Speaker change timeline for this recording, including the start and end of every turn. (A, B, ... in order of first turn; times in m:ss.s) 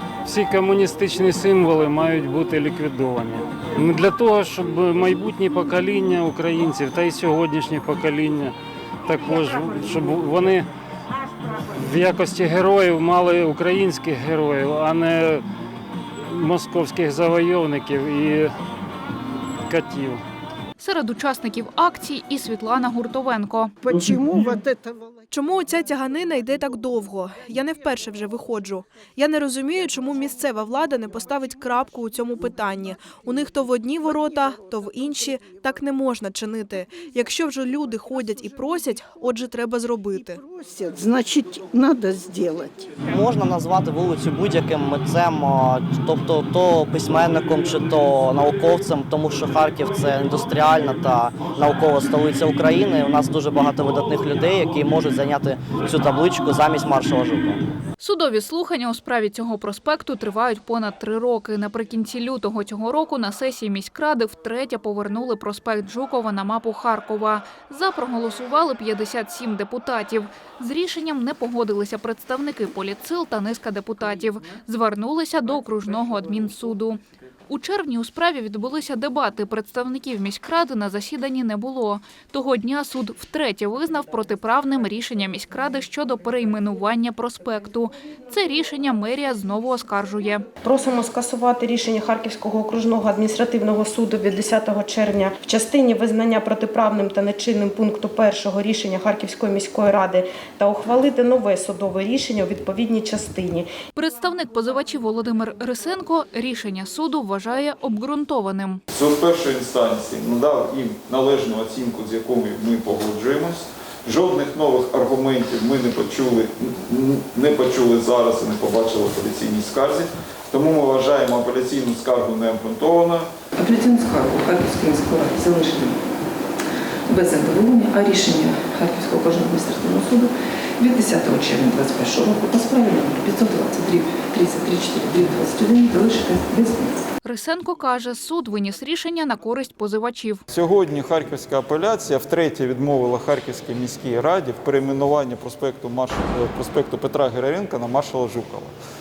0:00.2-0:08.5 A
0:09.0-0:10.7 A
0:11.8-0:15.4 A
0:16.2-0:18.5 A
0:19.7-0:20.2 A
0:20.8-0:23.7 B
0:23.9-0:24.8 C
0:25.3-0:40.4 D
0:40.6-0:42.9 C
0:43.0-0:57.6 E
0:58.0-1:30.4 B
1:30.6-1:43.7 F
1:43.9-1:48.8 B
1:48.9-2:03.3 G
2:03.6-2:06.0 H
2:07.1-2:17.0 H
2:17.2-2:20.4 B
2:20.5-2:28.7 G